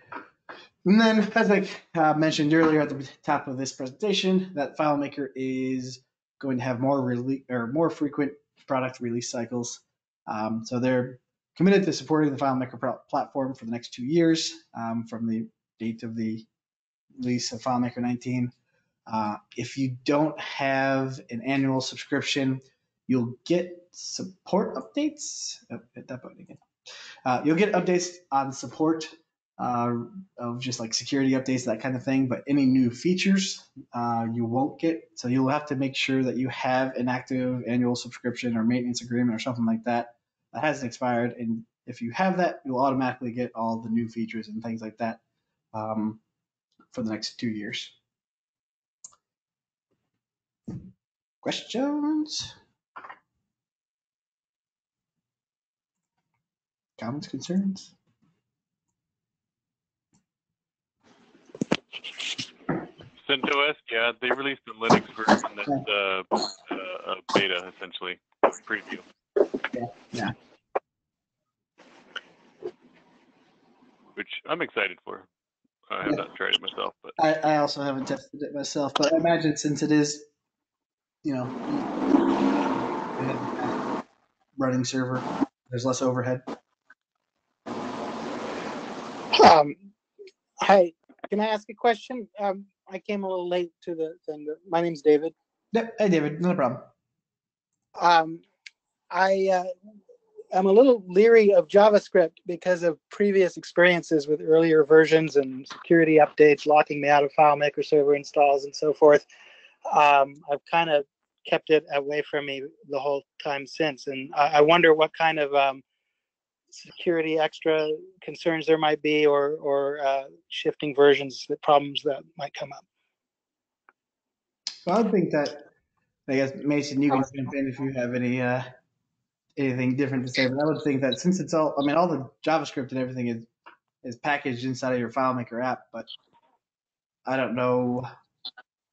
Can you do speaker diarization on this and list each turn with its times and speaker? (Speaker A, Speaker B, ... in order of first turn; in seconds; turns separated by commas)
Speaker A: 0.8-16.5, Speaker A: 17.2-18.5, Speaker A: 19.1-26.6, Speaker A: 27.2-45.2, Speaker A: 45.7-46.2, Speaker A: 46.9-48.0, Speaker A: 51.4-52.5, Speaker A: 57.0-57.9, Speaker B: 63.2-69.0, Speaker A: 69.7-70.3, Speaker B: 74.2-75.3, Speaker B: 75.9-77.2, Speaker A: 77.2-80.3, Speaker A: 81.2-82.0, Speaker A: 82.6-83.8, Speaker A: 84.6-86.5, Speaker C: 89.3-89.8, Speaker C: 90.6-95.3, Speaker A: 95.7-96.9, Speaker C: 98.0-98.4, Speaker C: 99.1-99.7, Speaker C: 100.5-109.2, Speaker C: 109.9-115.8, Speaker C: 116.8-122.8, Speaker A: 124.9-125.7, Speaker A: 126.3-128.7, Speaker A: 129.6-133.5, Speaker A: 134.0-136.1, Speaker A: 137.3-138.1